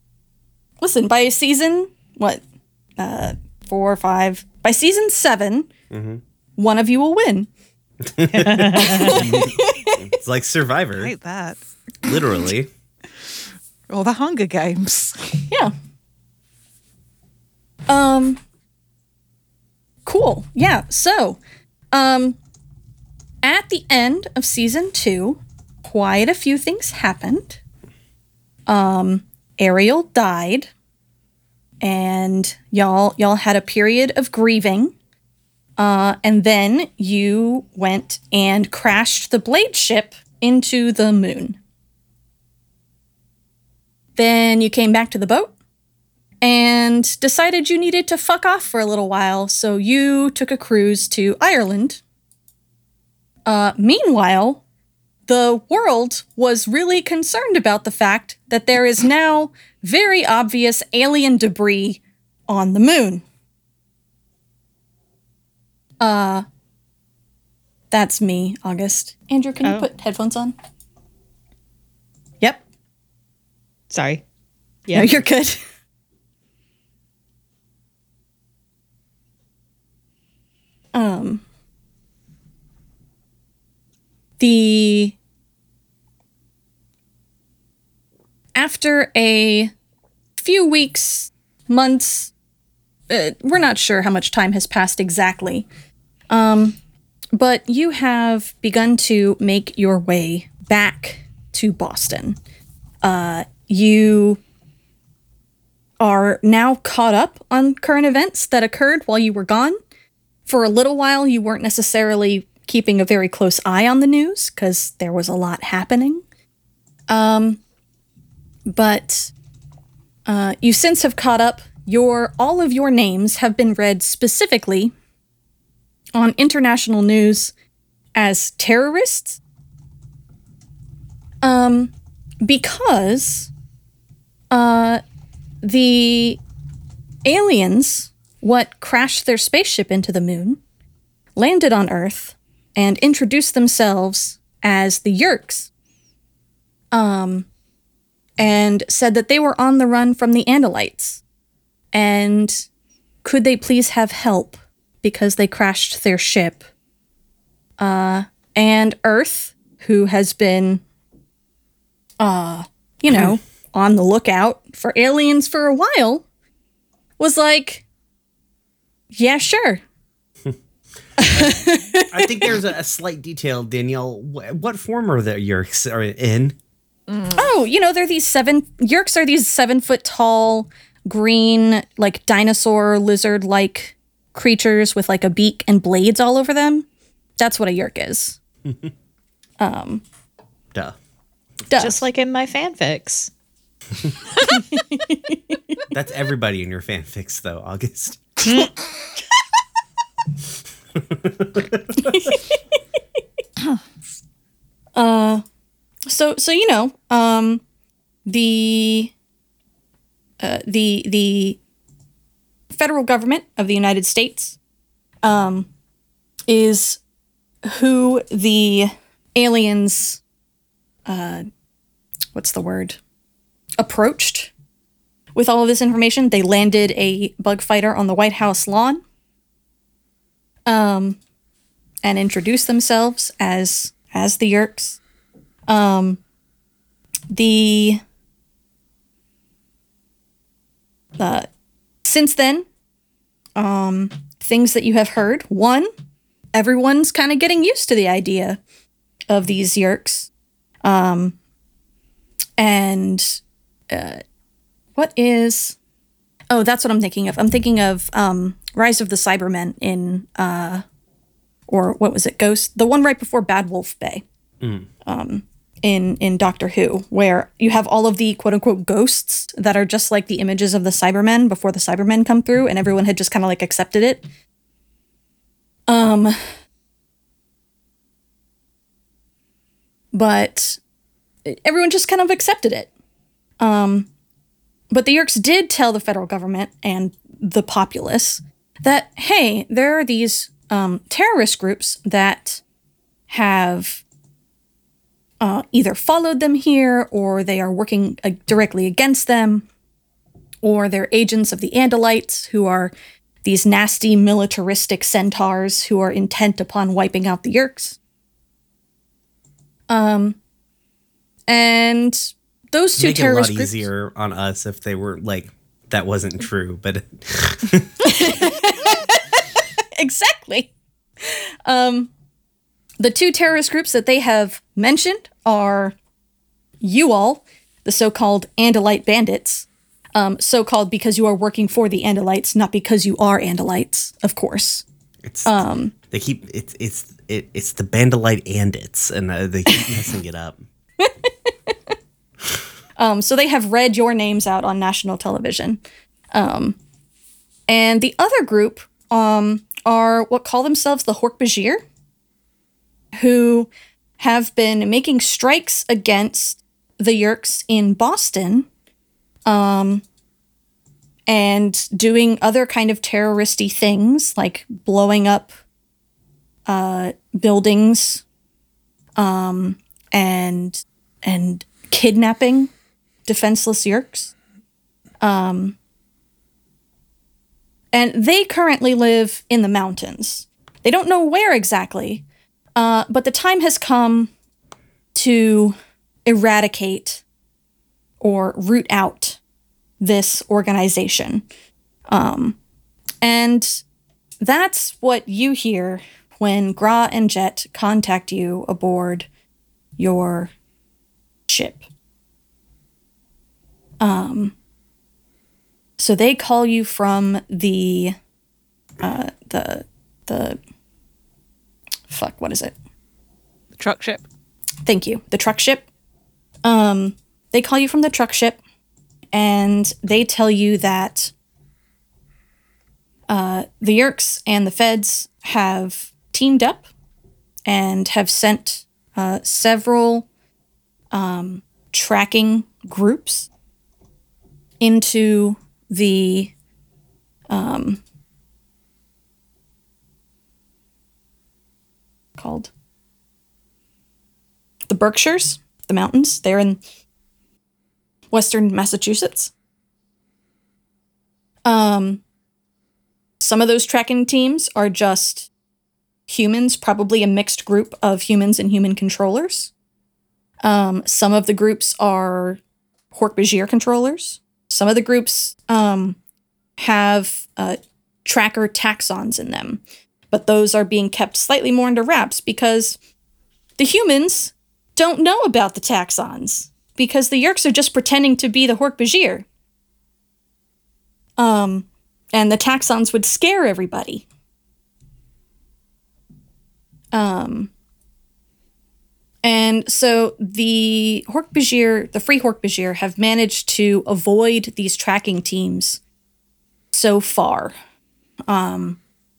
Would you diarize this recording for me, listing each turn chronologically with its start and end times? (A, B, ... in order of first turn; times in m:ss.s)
0:00.8-0:02.4 A
0:03.0-0:05.7 A
0:05.9-0:06.2 B
0:06.6-0:07.5 A
0:08.0-0:11.2 B
0:08.3-0:09.3 C
0:08.7-0:10.0 A
0:11.0-0:11.6 D
0:12.0-0:12.7 B
0:13.2-0:15.4 D
0:15.5-0:15.7 A
0:17.9-0:18.4 A
0:20.0-0:21.4 A
0:21.9-0:22.4 A
0:23.4-0:27.6 A
0:28.7-0:30.7 A
0:31.8-0:34.9 A
0:35.8-0:41.6 A
0:44.2-0:45.5 A
0:46.4-0:52.0 A
0:53.5-0:54.6 A
0:55.3-1:03.2 A
1:06.0-1:06.4 A
1:07.9-1:10.6 A
1:13.9-1:14.2 C
1:14.9-1:15.2 C
1:14.9-1:15.6 A
1:20.9-1:21.4 A
1:24.4-1:25.2 A
1:28.6-1:29.7 A
1:30.4-1:32.3 A
1:33.1-1:35.7 A
1:36.3-1:36.8 A
1:37.4-1:42.4 A
1:43.0-1:44.4 A
1:46.0-1:49.8 A
1:50.5-1:56.2 A
1:57.1-1:57.6 A
1:58.7-1:59.3 A
2:00.3-2:04.9 A
2:06.2-2:07.5 A
2:08.2-2:09.4 A
2:11.4-2:13.5 A
2:14.5-2:15.0 A
2:15.6-2:16.4 A
2:17.2-2:20.6 A
2:21.4-2:25.7 A
2:26.9-2:27.5 A
2:28.4-2:31.2 A
2:31.9-2:32.7 A
2:33.2-2:36.6 A
2:37.8-2:40.8 A
2:42.2-2:46.2 A
2:47.2-2:47.8 A
2:49.1-2:49.8 A
2:51.2-2:52.5 A
2:51.2-2:56.6 B
2:57.1-2:57.4 D
2:57.3-3:08.4 A
3:09.6-3:10.0 A
3:11.7-3:12.0 A
3:11.8-3:13.3 C
3:14.4-3:15.8 A
3:15.9-3:18.5 B
3:21.0-3:22.0 B
3:22.0-3:22.6 A
3:25.0-3:25.4 A
3:26.1-3:27.6 A
3:28.3-3:29.1 A
3:30.4-3:31.6 A
3:32.7-3:34.6 A
3:35.2-3:35.7 A
3:36.5-3:37.0 A
3:37.6-3:40.2 A
3:41.1-3:41.5 A
3:42.3-3:43.0 A
3:43.8-3:44.5 A
3:45.4-3:49.0 A
3:50.7-3:51.2 A
3:52.0-3:55.0 A
3:55.7-3:56.2 A
3:57.3-3:58.0 A
4:01.2-4:01.5 A
4:02.0-4:02.7 A
4:03.6-4:05.9 A
4:06.5-4:08.6 A
4:09.3-4:10.3 A
4:10.8-4:11.4 A
4:12.6-4:13.4 A
4:13.9-4:14.2 A
4:15.0-4:15.8 A
4:16.5-4:20.8 A
4:21.7-4:24.2 A
4:24.6-4:24.9 B
4:25.1-4:34.3 A
4:35.9-4:36.4 A
4:40.1-4:40.8 A
4:41.4-4:42.9 A
4:43.6-4:44.1 A
4:44.9-4:52.6 A
4:53.3-4:54.0 A
4:55.4-4:59.7 A
5:00.6-5:02.9 A
5:03.4-5:08.0 A
5:09.9-5:10.4 A
5:11.5-5:13.9 A
5:13.0-5:18.3 B
5:18.0-5:19.1 A
5:20.0-5:22.1 A
5:23.0-5:26.0 A
5:26.8-5:34.8 A
5:35.2-5:35.6 B
5:35.4-5:35.9 A
5:36.1-5:40.6 B
5:41.0-5:41.7 A
5:43.0-5:45.8 A
5:46.3-5:46.8 A
5:47.7-5:51.8 A
5:53.2-5:58.7 A
5:59.5-6:00.0 A
6:01.3-6:05.6 A
6:06.7-6:08.2 A
6:09.2-6:12.7 A
6:13.3-6:14.3 A
6:15.2-6:15.8 A
6:17.9-6:22.2 A
6:22.8-6:24.3 A
6:25.2-6:27.2 A
6:28.2-6:29.4 A
6:30.0-6:31.4 A
6:32.1-6:32.6 A
6:33.2-6:33.8 A
6:34.4-6:39.3 A
6:40.0-6:40.5 A
6:41.5-6:41.8 A
6:44.0-6:44.6 A
6:46.0-6:48.2 A
6:49.0-6:50.6 A
6:52.1-6:52.7 A
6:53.8-6:54.2 D
6:54.8-6:55.9 A
6:56.6-6:58.6 A
6:59.3-7:01.3 A
7:03.3-7:06.9 A
7:07.7-7:10.3 A
7:11.1-7:13.5 A
7:14.8-7:16.5 A
7:17.5-7:18.0 A
7:22.4-7:22.7 A
7:24.9-7:26.8 A
7:28.3-7:29.5 A
7:31.7-7:32.2 A
7:33.4-7:35.5 A
7:36.3-7:39.7 A
7:40.6-7:42.6 A
7:43.1-7:46.2 A
7:46.8-7:53.0 A
7:53.8-7:59.5 A
8:01.4-8:04.2 A
8:07.1-8:07.7 A
8:09.4-8:16.0 A
8:16.9-8:17.8 A
8:18.5-8:19.0 A